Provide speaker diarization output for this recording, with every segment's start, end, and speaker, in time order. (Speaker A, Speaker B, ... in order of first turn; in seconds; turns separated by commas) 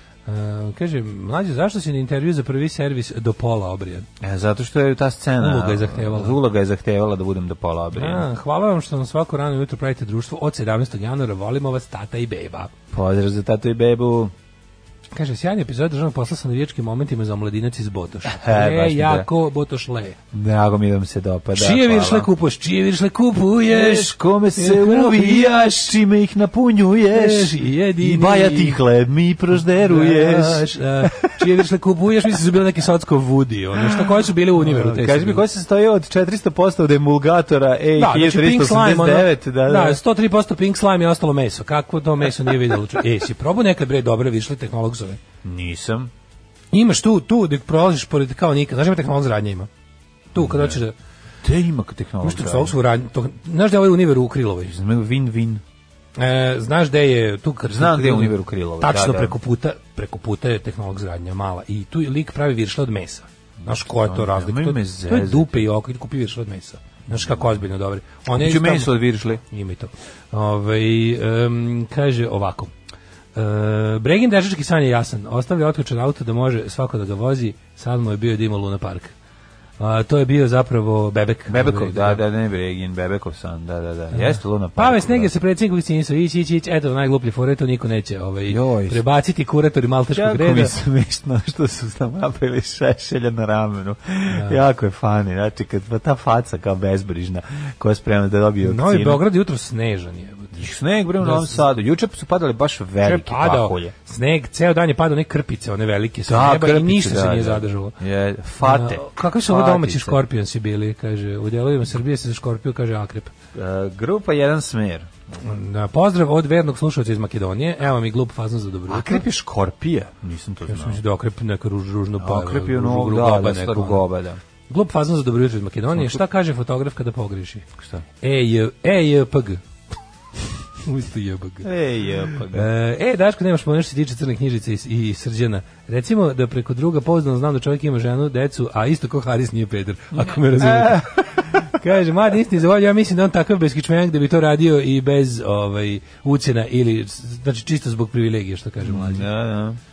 Speaker A: 0.3-4.1, Speaker B: 4.2-8.3, Speaker A: 5.4-6.4, Speaker A: 7.9-12.7, Speaker B: 12.9-14.3, Speaker A: 15.1-20.2, Speaker B: 18.2-19.3, Speaker B: 20.3-22.3, Speaker A: 21.5-25.9, Speaker B: 23.7-31.3, Speaker A: 27.1-28.8, Speaker A: 29.7-35.4, Speaker B: 34.6-40.0, Speaker A: 38.0-45.2, Speaker B: 45.4-46.1, Speaker A: 46.7-49.7, Speaker A: 50.3-50.9, Speaker B: 50.3-50.8, Speaker B: 51.4-52.8, Speaker A: 52.2-54.7, Speaker B: 54.7-55.6, Speaker A: 56.2-72.7, Speaker B: 57.7-59.4, Speaker B: 63.6-65.7, Speaker B: 67.1-67.5, Speaker B: 68.3-69.4, Speaker A: 73.3-79.1, Speaker A: 79.8-82.2, Speaker B: 81.5-85.3, Speaker A: 84.1-90.7, Speaker B: 88.5-89.0, Speaker B: 90.1-99.2, Speaker A: 94.3-94.6, Speaker A: 98.6-101.6, Speaker B: 100.5-103.9, Speaker A: 103.0-107.9, Speaker B: 106.2-110.2, Speaker A: 108.6-113.3, Speaker B: 113.5-115.1, Speaker A: 115.4-119.2, Speaker B: 118.9-121.0, Speaker A: 120.7-124.0, Speaker B: 122.2-124.4, Speaker A: 124.7-127.6, Speaker B: 125.9-126.2, Speaker B: 127.8-128.0, Speaker A: 128.2-129.6, Speaker A: 130.8-131.7, Speaker B: 131.6-132.7, Speaker A: 132.5-149.2, Speaker B: 140.1-141.7, Speaker B: 148.8-149.8